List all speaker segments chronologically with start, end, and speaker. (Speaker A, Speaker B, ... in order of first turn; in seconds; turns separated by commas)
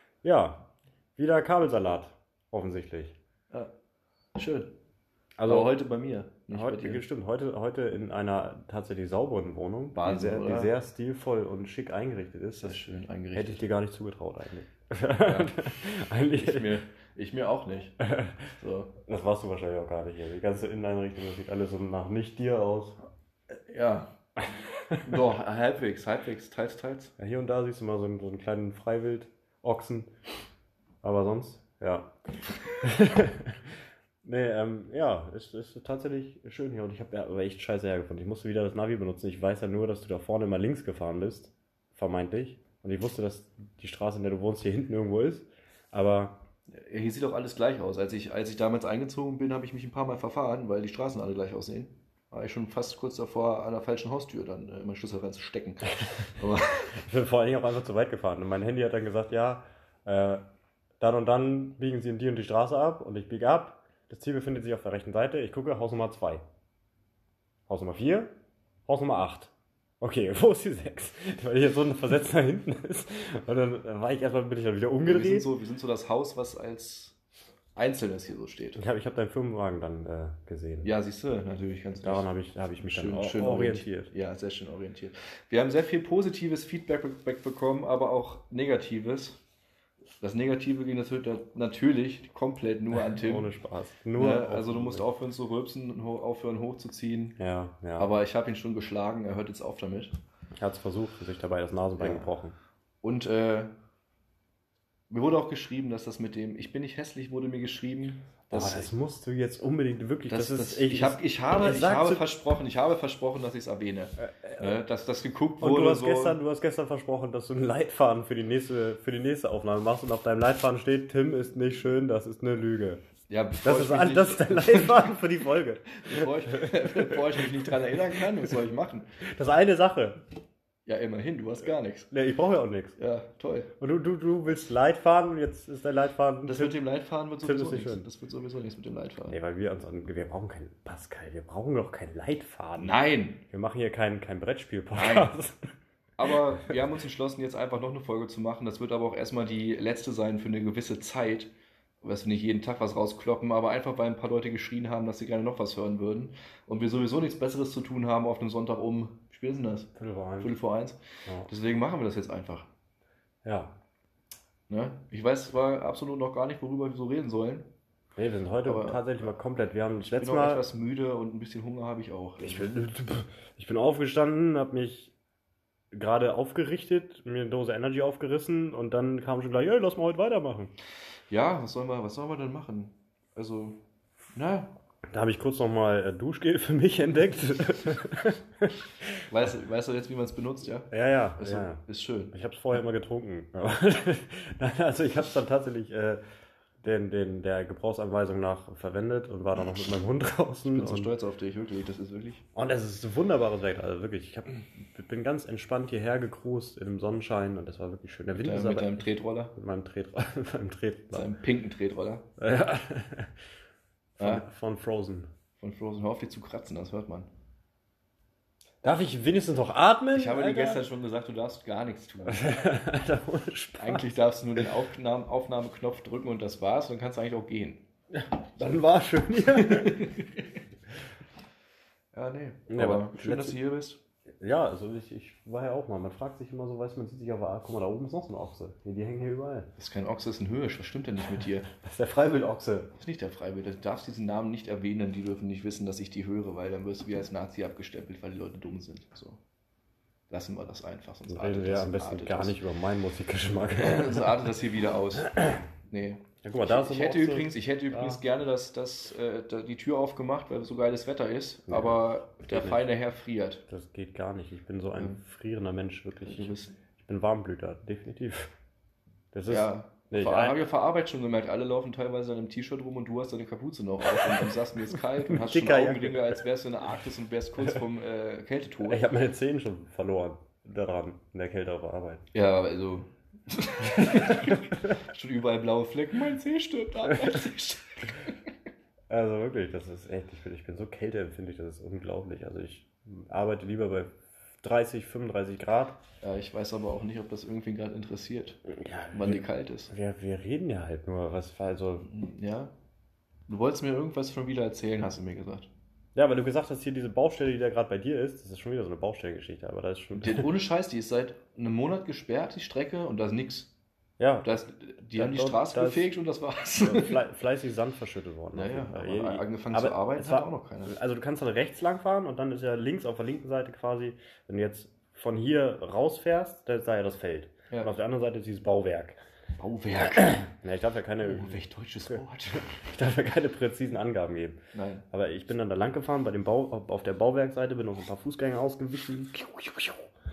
Speaker A: 0.2-3.2, Speaker B: 4.3-4.7, Speaker A: 5.4-5.7, Speaker B: 5.5-7.0, Speaker A: 6.5-12.8, Speaker B: 9.9-10.7, Speaker B: 12.6-13.6, Speaker A: 13.3-16.8, Speaker B: 15.2-15.6, Speaker B: 16.4-17.9, Speaker A: 18.0-18.5, Speaker B: 18.6-18.9, Speaker A: 19.1-23.0, Speaker B: 23.7-24.1, Speaker A: 24.5-25.2, Speaker B: 25.0-27.1, Speaker A: 27.2-30.1, Speaker A: 31.0-32.1, Speaker A: 32.7-33.7, Speaker A: 34.2-46.4, Speaker B: 46.7-57.0, Speaker A: 56.9-60.4, Speaker A: 61.0-66.4, Speaker A: 67.7-68.3, Speaker A: 68.9-75.5, Speaker B: 75.0-77.2, Speaker B: 77.8-78.8, Speaker A: 78.8-80.9, Speaker B: 80.8-82.3, Speaker A: 82.0-84.1, Speaker B: 82.8-89.4, Speaker B: 90.2-93.5, Speaker A: 93.1-95.0, Speaker B: 94.2-97.4, Speaker A: 97.4-98.2, Speaker B: 98.0-100.2, Speaker A: 100.6-102.5, Speaker B: 102.0-102.3, Speaker B: 103.0-103.7, Speaker B: 105.1-108.9, Speaker A: 108.5-112.2, Speaker B: 110.3-116.4, Speaker A: 114.2-114.8, Speaker A: 115.6-123.0, Speaker B: 123.3-125.2, Speaker A: 123.6-128.2, Speaker B: 125.9-129.2, Speaker A: 129.2-130.2, Speaker B: 130.9-132.1, Speaker A: 132.1-133.0, Speaker B: 133.0-133.7, Speaker A: 133.8-136.8, Speaker B: 136.4-139.4, Speaker A: 137.4-138.1, Speaker A: 139.3-145.7, Speaker B: 142.8-143.4, Speaker B: 144.9-145.3, Speaker B: 146.2-151.5, Speaker B: 152.0-162.7, Speaker A: 160.0-160.5, Speaker A: 163.4-163.8, Speaker B: 164.7-167.7, Speaker A: 168.2-170.6, Speaker B: 168.7-169.1, Speaker B: 170.0-172.7, Speaker A: 172.4-175.1, Speaker A: 175.9-180.7, Speaker B: 181.3-183.8, Speaker B: 184.3-184.7, Speaker A: 185.1-189.2, Speaker B: 189.3-192.4, Speaker A: 190.9-191.8, Speaker A: 192.3-196.2, Speaker A: 196.8-201.1, Speaker B: 200.7-202.4, Speaker A: 202.6-211.3, Speaker B: 208.4-209.6, Speaker B: 211.1-212.3, Speaker A: 212.4-213.3, Speaker B: 214.2-214.4, Speaker A: 214.2-215.3, Speaker B: 215.6-217.3, Speaker A: 218.8-220.8, Speaker B: 220.1-222.5, Speaker A: 222.3-224.0, Speaker B: 223.8-227.9, Speaker A: 228.1-230.1, Speaker B: 229.5-230.5, Speaker B: 232.1-234.0, Speaker A: 232.7-233.6, Speaker A: 234.4-239.7, Speaker B: 239.8-241.7, Speaker A: 241.7-242.9, Speaker B: 242.9-249.4, Speaker B: 250.3-252.6, Speaker A: 251.3-254.4, Speaker B: 253.8-255.3, Speaker A: 255.2-255.7, Speaker B: 255.9-263.6, Speaker A: 256.4-258.2, Speaker A: 261.7-262.9, Speaker A: 263.7-268.5, Speaker B: 266.2-266.8, Speaker A: 269.3-270.6, Speaker B: 269.5-279.1, Speaker A: 274.1-274.5, Speaker A: 275.2-276.4, Speaker A: 278.9-282.2, Speaker B: 282.3-288.4, Speaker A: 283.9-284.7, Speaker A: 287.1-287.4, Speaker A: 289.1-296.0, Speaker B: 296.2-299.9, Speaker A: 298.7-302.1, Speaker B: 302.1-302.7, Speaker B: 303.5-305.7, Speaker A: 306.1-310.5, Speaker B: 310.2-313.7, Speaker A: 314.2-314.5, Speaker B: 314.4-317.2, Speaker A: 315.1-316.1, Speaker A: 316.8-329.2, Speaker B: 318.5-320.9, Speaker B: 327.7-328.0, Speaker B: 329.6-330.5, Speaker A: 330.2-331.6, Speaker B: 331.2-332.8, Speaker A: 332.6-334.6, Speaker B: 334.7-335.1, Speaker A: 335.1-340.1